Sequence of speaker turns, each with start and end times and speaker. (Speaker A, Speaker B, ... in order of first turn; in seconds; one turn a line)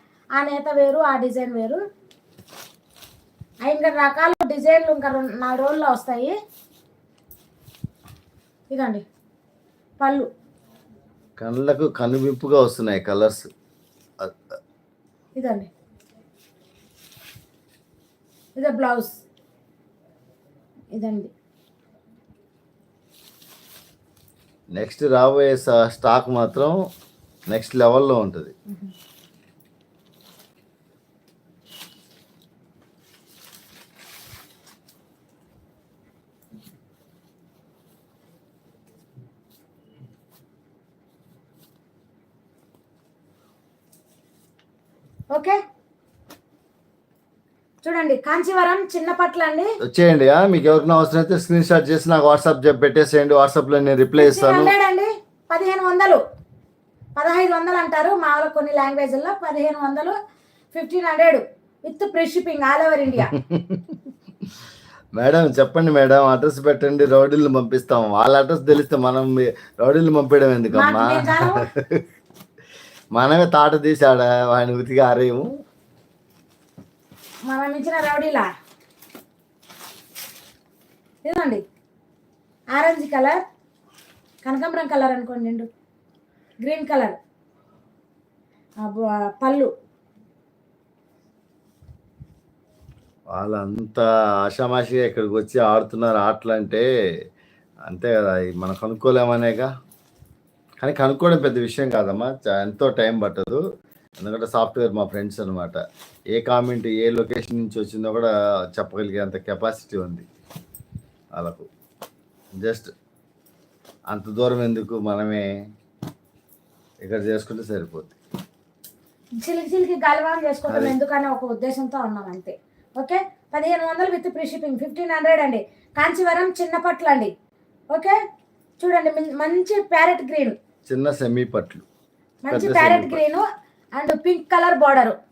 Speaker A: 0.4-1.8
Speaker A: 3.6-6.3
Speaker A: 8.7-9.0
Speaker A: 10.0-10.3
Speaker B: 11.4-13.5
Speaker A: 15.4-15.7
Speaker A: 18.6-19.2
Speaker A: 20.9-21.3
Speaker B: 24.8-26.8
Speaker B: 27.5-28.5
Speaker A: 45.3-45.6
Speaker A: 47.8-49.7
Speaker B: 49.8-54.7
Speaker A: 54.2-56.2
Speaker A: 57.2-60.1
Speaker A: 60.7-63.3
Speaker B: 63.3-64.0
Speaker B: 65.2-72.0
Speaker A: 70.7-71.7
Speaker B: 73.2-75.5
Speaker A: 77.5-78.5
Speaker A: 81.2-81.6
Speaker A: 82.7-83.4
Speaker A: 84.4-85.7
Speaker A: 86.6-87.2
Speaker A: 88.8-89.7
Speaker B: 93.3-96.9
Speaker B: 97.9-99.7
Speaker B: 100.8-103.6
Speaker B: 104.2-105.8
Speaker B: 106.3-110.3
Speaker B: 111.4-111.7
Speaker B: 112.6-112.9
Speaker B: 114.1-115.5
Speaker B: 117.0-118.2
Speaker A: 119.4-127.3
Speaker B: 120.7-121.0
Speaker A: 128.8-130.6
Speaker B: 130.9-131.9
Speaker A: 132.4-133.4
Speaker B: 132.5-133.2
Speaker A: 134.0-135.2